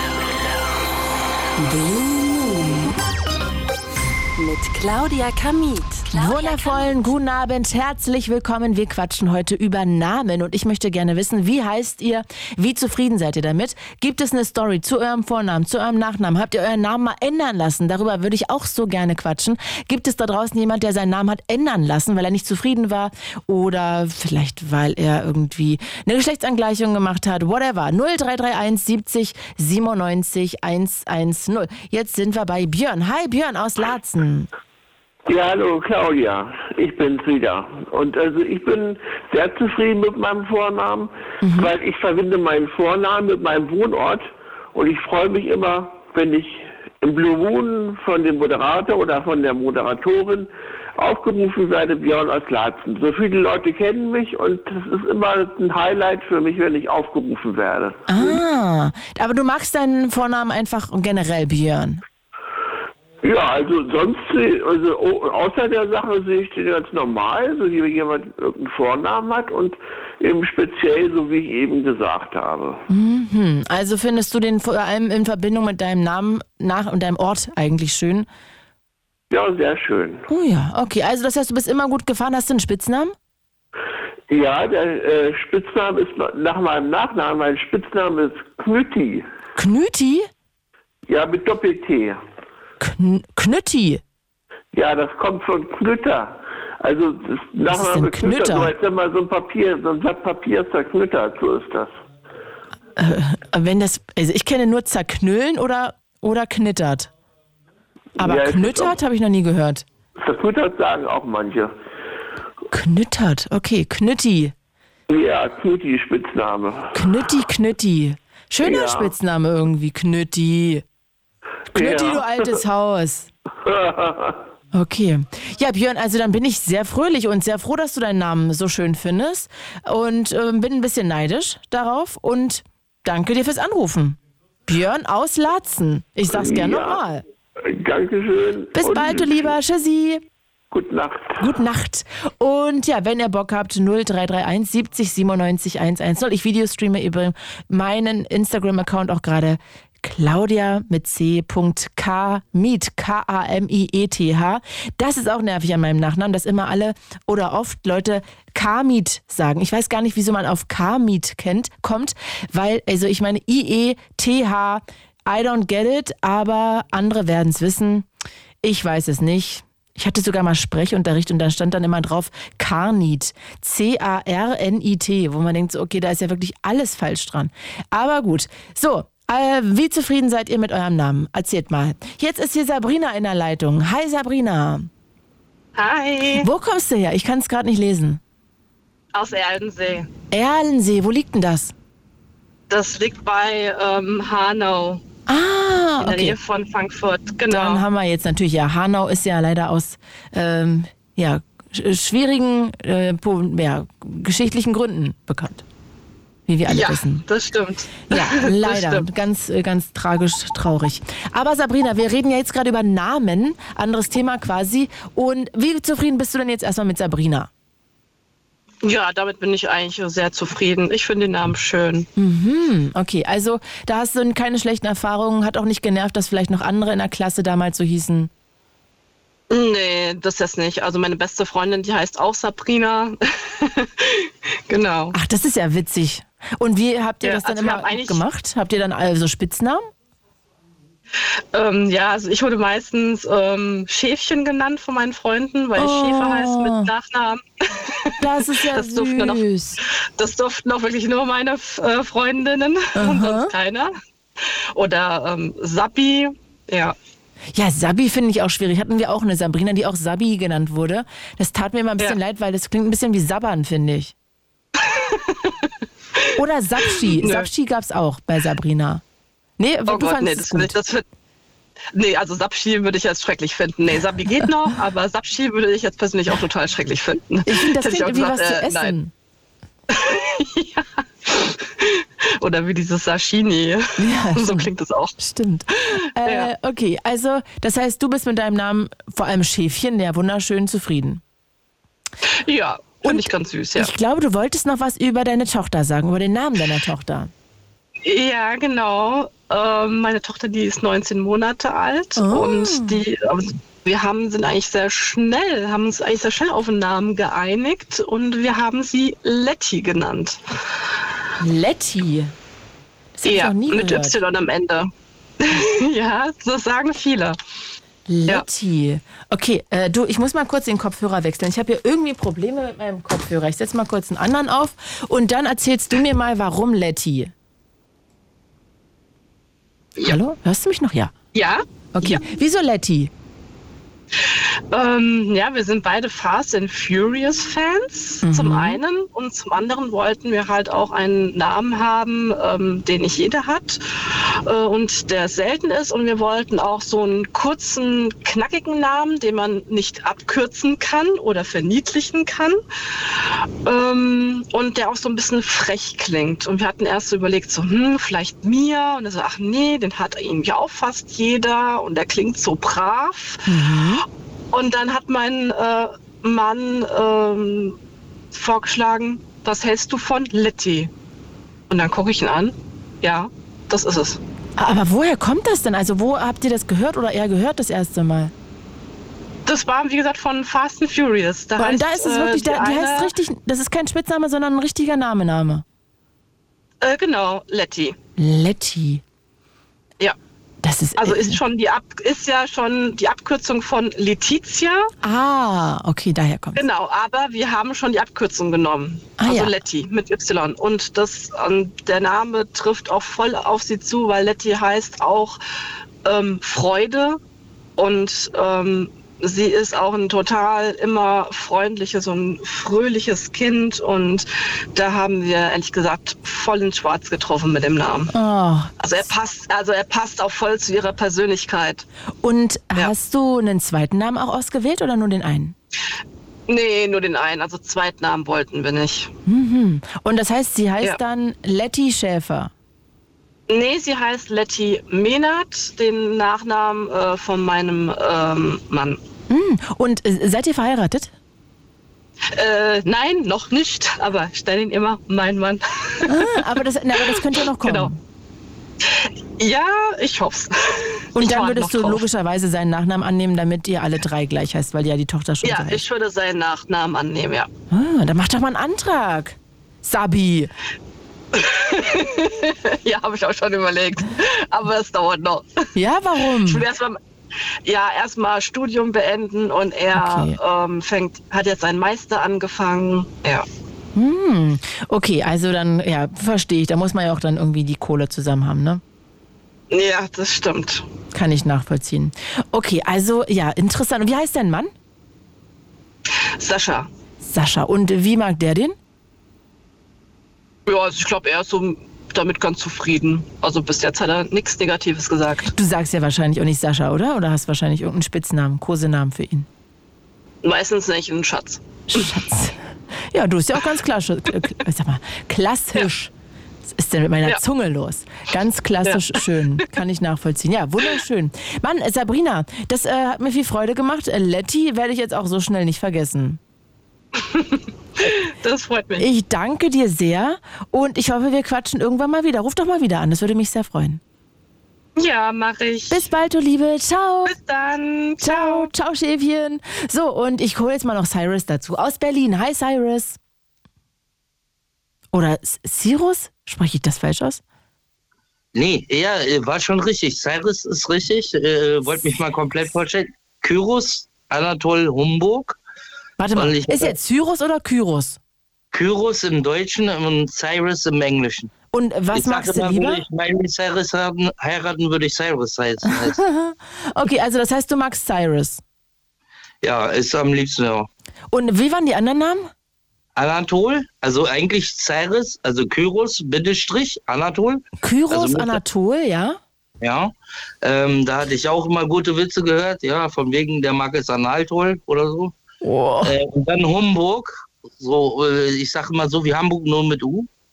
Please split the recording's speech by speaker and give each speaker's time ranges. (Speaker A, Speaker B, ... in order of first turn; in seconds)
Speaker A: 1.6-2.9, 4.4-7.0
Speaker B: 6.1-34.5, 41.4-41.7, 58.1-62.0, 72.9-78.3, 80.3-83.1, 89.5-90.3, 92.8-94.0, 97.7-98.7, 103.0-107.1, 108.2-109.8, 112.7-114.5, 116.9-120.8, 121.7-123.3, 124.7-137.2, 138.7-140.2, 141.4-168.1, 168.6-184.9, 186.4-188.2, 190.3-191.7, 195.3-196.4, 197.5-205.6, 206.5-207.2, 208.1-217.5, 222.2-228.3, 235.1-239.9, 245.8-246.9, 248.2-249.8, 252.9-253.5, 257.5-264.1, 266.4-269.0, 269.6-270.8, 277.4-279.1, 284.0-291.2, 293.0-297.3, 302.2-303.0, 311.4-312.3, 313.2-314.2, 318.1-327.3, 330.0-331.1, 331.9-333.1, 338.2-338.8, 363.4-364.0, 374.6-378.3, 381.6-385.6, 388.2-389.0, 390.6-391.4, 395.0-396.6, 399.2-399.6, 418.1-418.7, 422.2-425.6, 429.2-432.5, 439.3-441.1, 446.1-448.0, 451.1-455.8, 457.7-460.5, 465.7-466.6, 469.9-470.4, 473.9-478.8, 481.1-484.7, 487.2-488.8, 495.4-499.5, 501.9-506.1, 506.7-516.4, 519.0-524.0, 525.9-527.4, 528.2-533.2, 535.1-537.4, 546.2-548.2, 551.7-553.0, 555.9-558.6, 561.3-562.5, 567.8-569.4, 575.6-576.1
Speaker C: 35.3-58.4, 63.2-72.8, 79.3-80.2, 84.3-89.2, 91.1-92.2, 94.7-101.9, 108.2-109.0, 110.2-111.7, 115.1-117.2, 118.6-119.1, 121.7-122.6, 123.6-124.3, 136.3-137.0, 137.6-139.5, 140.7-141.4
Speaker D: 185.7-186.5, 189.1-190.1, 192.7-195.0, 196.0-197.8, 206.7-209.1, 218.8-222.1, 229.5-235.2, 237.2-238.2, 241.5-249.4, 250.2-253.9, 254.7-256.9, 264.8-266.3, 266.9-267.5, 269.9-271.0, 271.9-278.9, 279.9-285.1, 285.9-286.5, 292.4-293.9, 298.0-310.4, 313.2-317.4, 331.3-332.2, 334.7-343.8, 344.4-352.6, 353.6-363.5, 364.5-367.8, 368.3-370.9, 371.7-374.2, 379.4-383.1, 386.8-387.9, 391.0-394.9, 396.5-405.4, 406.0-407.2, 407.8-418.1, 418.8-421.9, 426.5-429.1, 433.5-439.0, 442.3-446.5, 447.0-447.9, 448.8-452.0, 455.4-457.5, 461.3-465.5, 466.4-467.0, 467.6-473.5, 479.7-480.8, 486.4-486.9, 490.6-495.5, 500.4-502.1, 508.8-509.2, 517.1-519.1, 525.0-526.1, 527.2-528.7
Speaker E: 538.5-545.6, 546.4-546.9, 548.7-551.5, 552.1-556.2, 559.6-560.9, 563.1-568.6, 569.8-575.3, 576.0-580.3